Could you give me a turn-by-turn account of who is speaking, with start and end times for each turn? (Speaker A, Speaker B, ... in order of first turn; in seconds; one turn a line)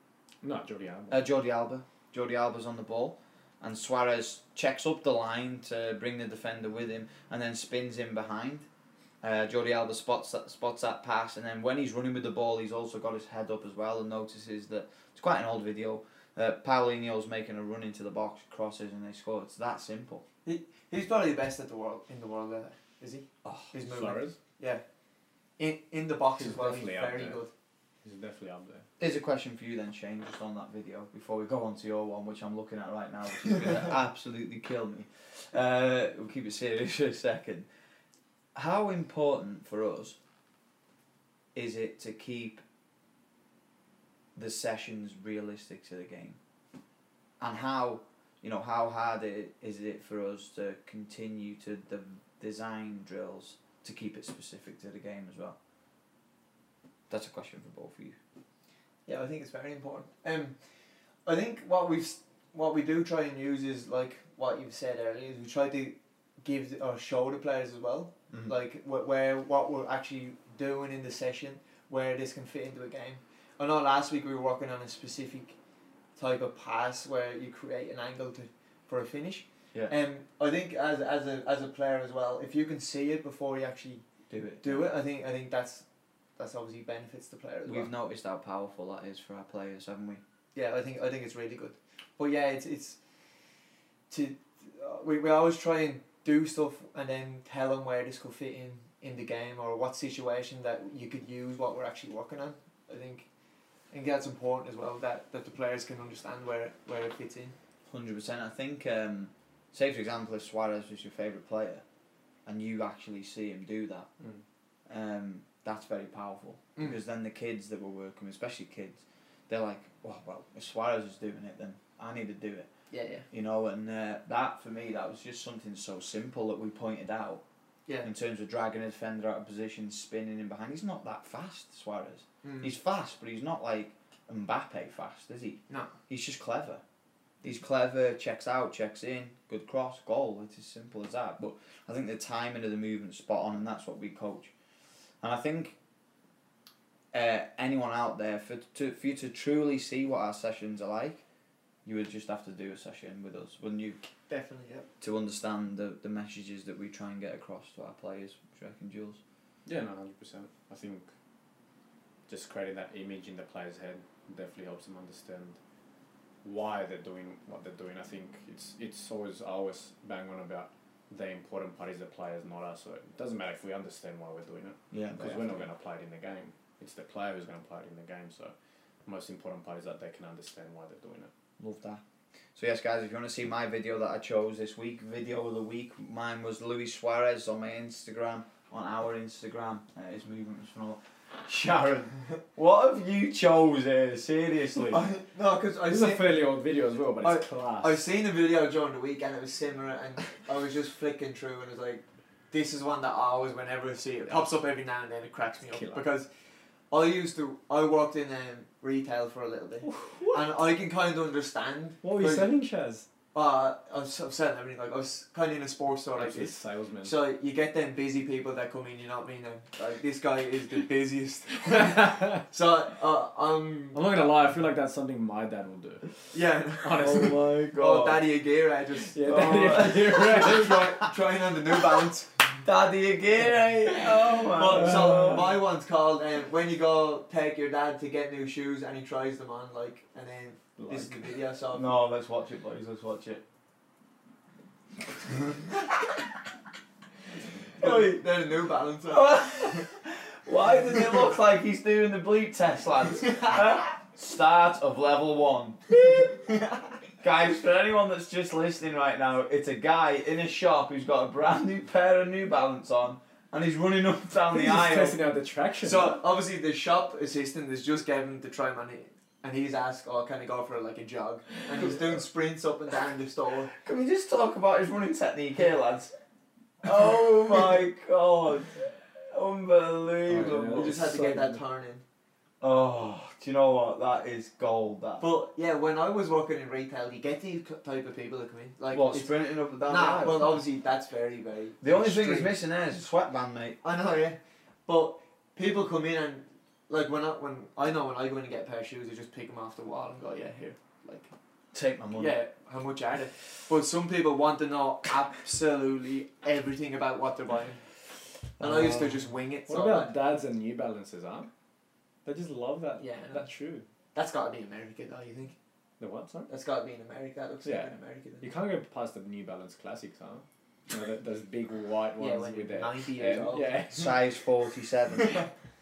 Speaker A: 0.4-1.2
Speaker B: 1.1-8.7
Speaker B: 9.2-20.2
Speaker C: 20.4-24.8
Speaker A: 23.8-24.4
Speaker C: 25.6-27.5
Speaker A: 26.4-27.4
Speaker A: 28.0-28.9
Speaker B: 29.0-37.7
Speaker B: 38.5-40.2
Speaker B: 41.5-42.6
Speaker B: 44.3-46.4
Speaker B: 47.4-55.5
Speaker B: 57.1-58.2
Speaker C: 59.0-60.6
Speaker C: 61.2-75.6
Speaker C: 76.2-84.0
Speaker B: 84.3-84.9
Speaker C: 84.6-85.8
Speaker C: 86.4-87.9
Speaker B: 87.6-90.2
Speaker C: 90.5-93.0
Speaker C: 94.1-103.2
Speaker C: 103.9-107.5
Speaker B: 107.9-111.8
Speaker B: 112.5-114.1
Speaker B: 114.9-122.7
Speaker C: 122.9-123.3
Speaker B: 123.3-127.4
Speaker B: 128.0-136.8
Speaker C: 132.4-132.7
Speaker B: 137.4-144.5
Speaker B: 145.2-145.8
Speaker B: 147.1-151.2
Speaker B: 151.8-154.0
Speaker C: 154.3-154.9
Speaker B: 155.0-159.2
Speaker A: 159.7-161.1
Speaker A: 162.3-165.6
Speaker A: 166.4-178.5
Speaker B: 174.9-175.7
Speaker A: 179.0-181.3
Speaker B: 181.6-182.0
Speaker B: 182.5-195.0
Speaker C: 194.9-196.4
Speaker A: 195.8-198.0
Speaker C: 197.2-206.3
Speaker A: 205.7-206.0
Speaker C: 206.9-212.5
Speaker A: 209.8-210.5
Speaker A: 212.0-213.1
Speaker C: 213.3-224.0
Speaker A: 216.1-217.2
Speaker A: 221.7-222.4
Speaker A: 223.9-226.1
Speaker C: 226.3-232.6
Speaker A: 226.8-227.4
Speaker B: 227.0-228.2
Speaker A: 229.1-230.9
Speaker B: 229.2-230.2
Speaker B: 232.6-235.6
Speaker C: 234.5-242.0
Speaker A: 234.7-235.4
Speaker B: 241.7-243.4
Speaker C: 247.8-249.9
Speaker B: 247.8-248.1
Speaker B: 249.1-256.3
Speaker B: 257.2-265.2
Speaker A: 264.5-266.2
Speaker C: 265.8-273.7
Speaker B: 273.7-276.1
Speaker B: 276.8-281.0
Speaker A: 280.3-281.6
Speaker C: 280.7-282.0
Speaker B: 282.6-285.3
Speaker C: 285.2-292.6
Speaker B: 288.9-290.6
Speaker B: 291.8-293.8
Speaker C: 293.8-301.3
Speaker B: 301.7-302.3
Speaker C: 302.1-307.8
Speaker B: 308.6-309.2
Speaker C: 308.6-310.1
Speaker A: 309.7-311.5
Speaker A: 312.2-313.9
Speaker C: 313.0-313.4
Speaker C: 314.1-315.5
Speaker A: 316.0-316.5
Speaker C: 316.5-318.5
Speaker A: 317.6-324.2
Speaker C: 322.2-324.1
Speaker B: 323.9-325.4
Speaker C: 325.2-325.5